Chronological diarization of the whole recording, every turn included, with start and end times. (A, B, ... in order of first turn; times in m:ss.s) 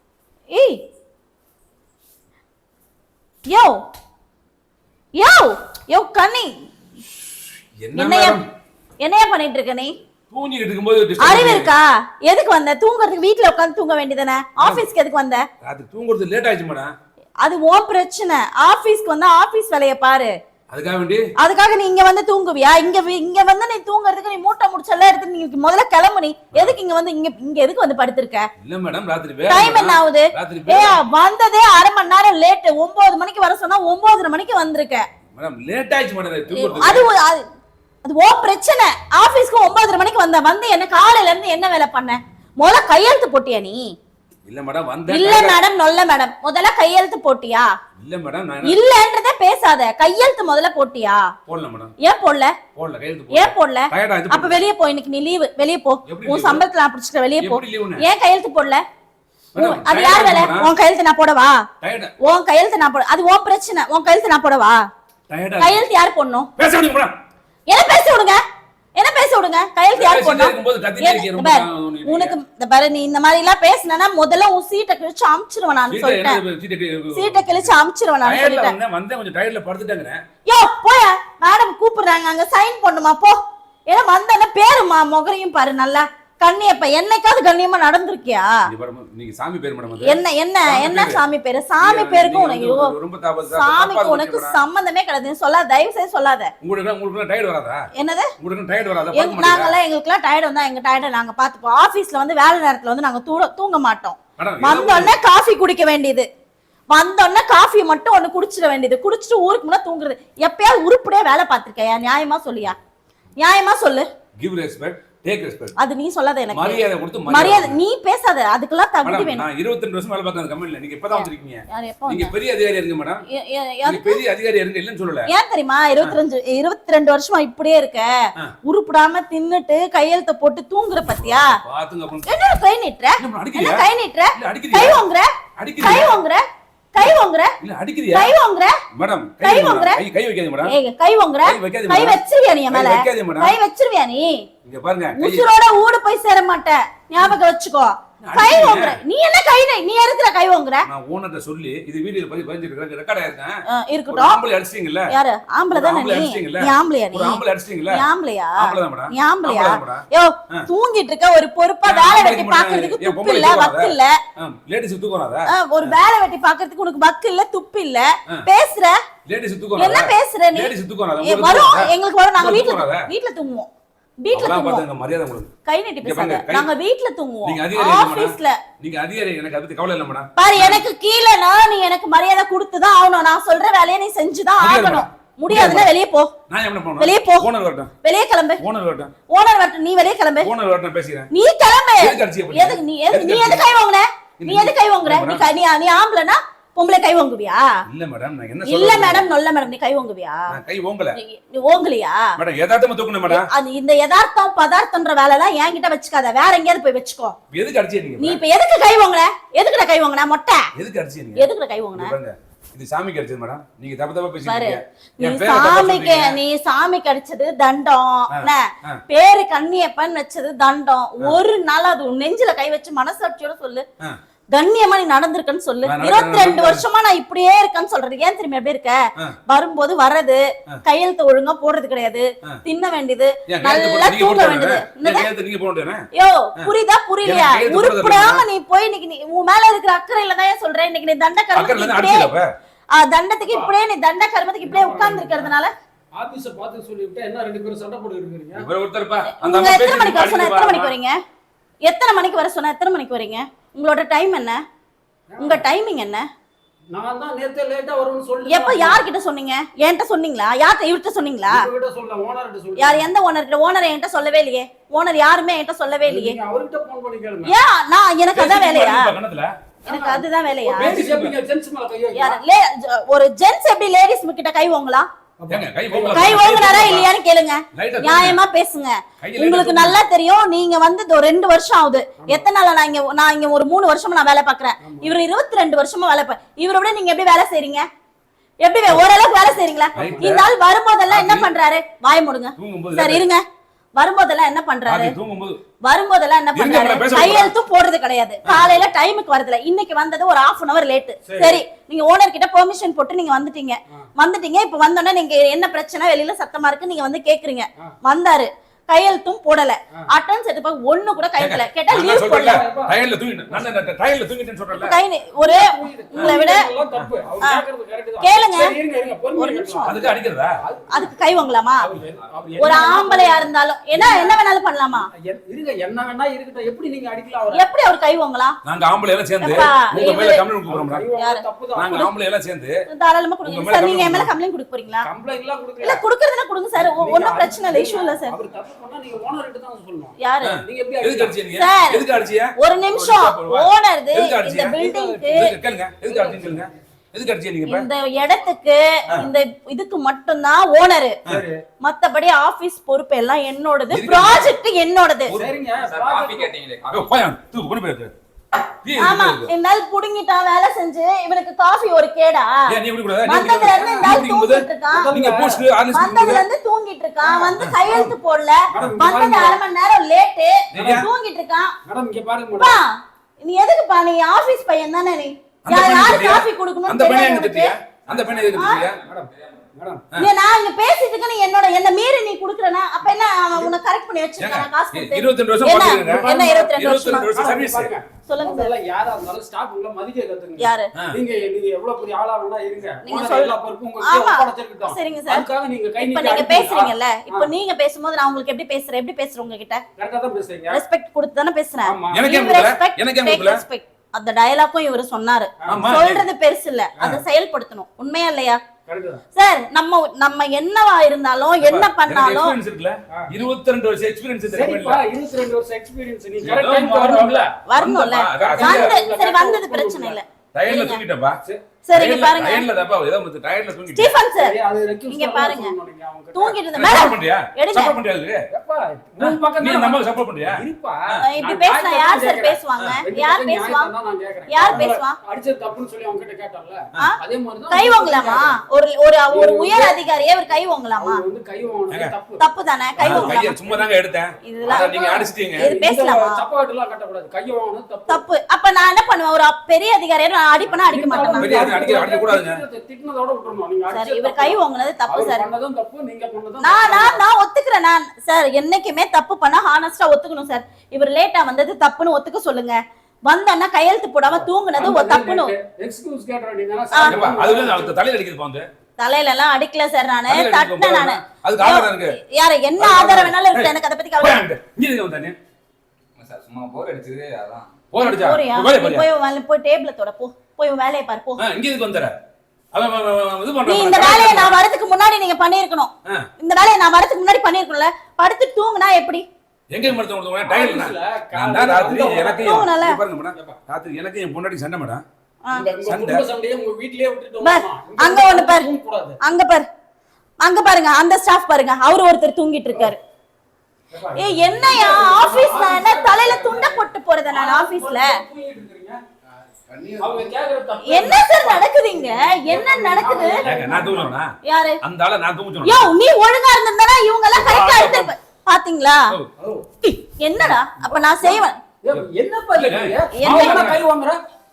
0:00.5-0:00.8 A
0:03.4-0:03.8 A
0:05.2-0:06.5 A
0:07.8-0:08.4 B
0:08.0-0:08.4 A
0:09.0-0:09.9 A
0:10.3-0:11.7 B
0:11.2-0:15.4 A
0:15.6-0:16.9 B
0:17.4-0:20.3 A
0:20.7-0:21.2 B
0:21.4-0:28.5 A
0:26.5-0:26.8 B
0:28.6-0:31.0 B
0:29.5-0:35.0 A
0:35.3-0:37.0 B
0:36.5-0:37.4 A
0:38.0-0:43.8 A
0:44.4-0:45.6 B
0:45.1-0:47.7 A
0:48.0-0:48.8 B
0:48.6-0:51.2 A
0:51.5-0:51.9 B
0:52.0-0:52.5 A
0:52.7-0:54.6 B
0:53.3-0:58.8 A
0:56.1-0:56.6 B
0:57.4-0:58.0 B
0:59.5-1:00.7 B
0:59.6-1:01.6 A
1:01.8-1:02.1 B
1:02.2-1:04.8 A
1:05.3-1:05.8 B
1:05.6-1:06.5 A
1:06.6-1:07.1 B
1:07.7-1:08.4 A
1:09.0-1:16.4 A
1:09.9-1:12.4 B
1:15.9-1:20.2 B
1:17.1-1:18.7 A
1:20.5-1:28.5 A
1:28.7-1:31.2 B
1:30.0-1:32.9 A
1:31.8-1:34.6 B
1:33.5-1:36.5 A
1:36.6-1:37.8 B
1:37.9-1:38.3 A
1:38.4-1:39.7 B
1:39.1-1:46.2 A
1:44.4-1:45.2 B
1:46.9-1:52.8 A
1:53.4-1:54.0 A
1:54.4-1:55.7 B
1:55.8-1:59.4 A
1:56.5-1:57.8 B
1:59.0-2:03.2 B
2:01.1-2:02.3 A
2:03.3-2:04.2 A
2:03.8-2:05.3 B
2:05.3-2:08.1 A
2:08.6-2:11.6 A
2:11.2-2:12.3 B
2:12.2-2:17.5 A
2:13.2-2:15.0 B
2:15.6-2:16.1 B
2:17.0-2:18.3 B
2:18.1-2:18.8 A
2:18.9-2:20.7 B
2:19.4-2:20.0 A
2:20.6-2:24.4 A
2:21.4-2:23.6 B
2:24.6-2:25.4 B
2:25.1-2:30.9 A
2:28.2-2:29.0 B
2:30.8-2:33.6 B
2:33.7-2:34.4 A
2:34.1-2:35.1 B
2:35.1-2:37.4 A
2:35.7-2:38.0 B
2:37.9-2:44.1 A
2:38.6-2:40.7 B
2:41.8-2:46.0 B
2:45.5-2:49.0 A
2:49.2-2:53.1 B
2:49.8-2:53.7 A
2:54.2-2:54.8 A
2:54.3-2:55.5 B
2:55.6-2:58.6 A
2:56.0-2:56.7 B
2:57.4-3:00.8 B
3:00.4-3:06.3 A
3:04.6-3:05.9 B
3:06.5-3:07.9 B
3:07.0-3:07.5 A
3:08.0-3:08.6 A
3:08.6-3:09.1 B
3:09.3-3:10.5 A
3:10.4-3:11.3 B
3:11.3-3:17.6 A
3:12.0-3:13.7 B
3:14.4-3:15.5 B
3:17.9-3:19.2 B
3:18.6-3:20.4 A
3:20.5-3:21.2 B
3:21.1-3:22.2 A
3:22.4-3:23.5 B
3:23.3-3:27.4 A
3:27.5-3:28.4 B
3:28.2-3:30.7 A
3:30.7-3:36.4 B
3:31.4-3:32.1 A
3:34.4-3:43.8 A
3:38.3-3:39.0 B
3:44.5-3:55.3 A
3:45.8-3:46.8 B
3:53.5-3:56.0 B
3:56.1-4:02.3 A
3:57.2-3:58.4 B
4:01.5-4:02.5 B
4:02.9-4:05.7 A
4:04.6-4:05.5 C
4:06.1-4:08.7 C
4:08.5-4:10.9 B
4:09.3-4:11.2 A
4:11.8-4:14.6 A
4:15.3-4:15.6 C
4:15.4-4:16.2 A
4:16.9-4:19.0 C
4:18.5-4:21.6 A
4:21.5-4:23.1 C
4:22.8-4:26.4 A
4:26.0-4:27.5 C
4:27.4-4:29.1 A
4:28.3-4:29.5 B
4:29.8-4:31.0 A
4:29.8-4:32.4 C
4:30.8-4:31.3 B
4:32.2-4:35.1 A
4:35.4-4:36.5 C
4:35.5-4:37.1 B
4:36.1-4:47.8 A
4:37.7-4:38.4 B
4:39.2-4:40.0 B
4:44.8-4:45.1 C
4:48.6-4:53.4 A
4:50.0-4:50.4 C
4:50.0-4:50.5 B
4:51.1-4:51.5 B
4:52.6-4:53.2 B
4:54.0-4:55.1 A
4:54.8-4:55.6 B
4:55.8-5:12.6 A
4:56.5-4:57.5 B
4:58.4-4:58.7 B
5:01.2-5:01.6 C
5:11.4-5:15.0 B
5:12.4-5:13.7 C
5:14.7-5:16.6 A
5:15.4-5:21.2 C
5:18.2-5:18.7 A
5:19.4-5:19.9 A
5:19.8-5:20.6 B
5:20.9-5:21.9 A
5:21.8-5:24.4 C
5:22.6-5:25.1 A
5:25.1-5:27.6 C
5:27.5-5:28.6 A
5:28.6-5:31.0 B
5:29.4-5:30.4 A
5:29.9-5:32.0 C
5:31.2-5:32.1 A
5:31.7-5:32.7 B
5:32.9-5:35.1 A
5:33.4-5:34.3 B
5:35.0-5:36.0 C
5:35.8-5:38.3 A
5:36.8-5:41.4 C
5:40.2-5:40.6 A
5:40.4-5:44.8 B
5:41.5-5:42.0 A
5:42.6-5:45.5 A
5:44.8-5:45.5 C
5:45.3-5:47.9 B
5:46.0-5:46.7 C
5:47.7-5:51.2 A
5:51.2-5:51.6 C
5:51.8-5:55.4 A
5:53.9-5:54.5 B
5:55.3-5:56.6 C
5:55.4-5:57.1 D
5:56.9-5:58.1 B
5:58.8-5:59.5 B
5:59.0-6:02.7 A
6:02.7-6:06.4 B
6:03.2-6:05.1 A
6:04.9-6:05.6 C
6:05.9-6:11.7 A
6:07.2-6:07.6 C
6:07.6-6:08.1 B
6:08.7-6:09.6 C
6:08.8-6:09.0 B
6:10.7-6:11.1 B
6:11.8-6:12.8 C
6:12.6-6:17.7 A
6:15.6-6:19.0 B
6:18.1-6:20.0 C
6:18.5-6:18.9 A
6:20.2-6:27.3 A
6:24.4-6:27.9 B
6:26.0-6:37.5 C
6:28.3-6:28.7 A
6:30.6-6:30.9 A
6:33.0-6:35.4 A
6:36.0-6:39.8 A
6:40.0-6:40.8 C
6:40.7-6:48.6 A
6:41.8-6:42.2 C
6:42.1-6:43.6 B
6:45.7-6:46.2 B
6:48.9-6:49.2 C
6:49.3-6:52.6 A
6:51.6-6:55.0 B
6:54.5-6:57.5 C
6:56.4-6:59.0 B
6:57.6-7:01.0 A
6:58.3-7:00.2 C
7:00.5-7:01.4 B
7:01.8-7:02.6 A
7:01.9-7:04.1 B
7:03.9-7:04.5 A
7:04.4-7:06.6 C
7:05.1-7:05.7 A
7:06.3-7:08.0 A
7:06.7-7:08.4 B
7:08.5-7:18.6 C
7:09.2-7:11.2 B
7:11.2-7:13.9 A
7:14.5-7:15.2 A
7:17.7-7:21.2 A
7:19.3-7:20.0 C
7:21.0-7:22.4 C
7:22.4-7:23.7 A
7:23.0-7:23.4 C
7:23.0-7:25.7 B
7:24.4-7:26.4 A
7:25.6-7:28.2 C
7:28.1-7:31.7 A
7:30.7-7:37.2 C
7:31.3-7:32.6 B
7:33.9-7:35.4 A
7:36.6-7:45.5 A
7:44.3-7:47.9 C
7:46.9-7:47.2 A
7:47.0-7:48.7 B
7:49.0-7:54.4 A
7:50.3-7:52.2 B
7:52.8-7:55.4 B
7:56.2-7:57.7 D
7:57.9-7:59.1 B
7:58.0-8:01.4 A
8:01.4-8:02.2 B
8:02.7-8:04.6 B
8:03.6-8:09.2 A
8:09.7-8:15.0 B
8:10.4-8:12.6 C
8:12.4-8:13.0 A
8:15.5-8:19.2 C
8:15.8-8:16.2 B
8:17.4-8:18.6 A
8:19.2-8:19.6 A
8:20.4-8:23.0 A
8:23.9-8:29.0 C
8:24.2-8:28.1 A
8:29.7-8:30.0 B
8:30.0-8:34.1 C
8:30.8-8:33.4 A
8:33.4-8:35.9 B
8:34.4-8:34.8 A
8:35.6-8:39.1 A
8:37.3-8:38.1 B
8:39.4-8:39.6 C
8:39.8-8:41.6 A
8:40.8-8:44.2 C
8:41.9-8:43.8 B
8:43.1-8:43.7 A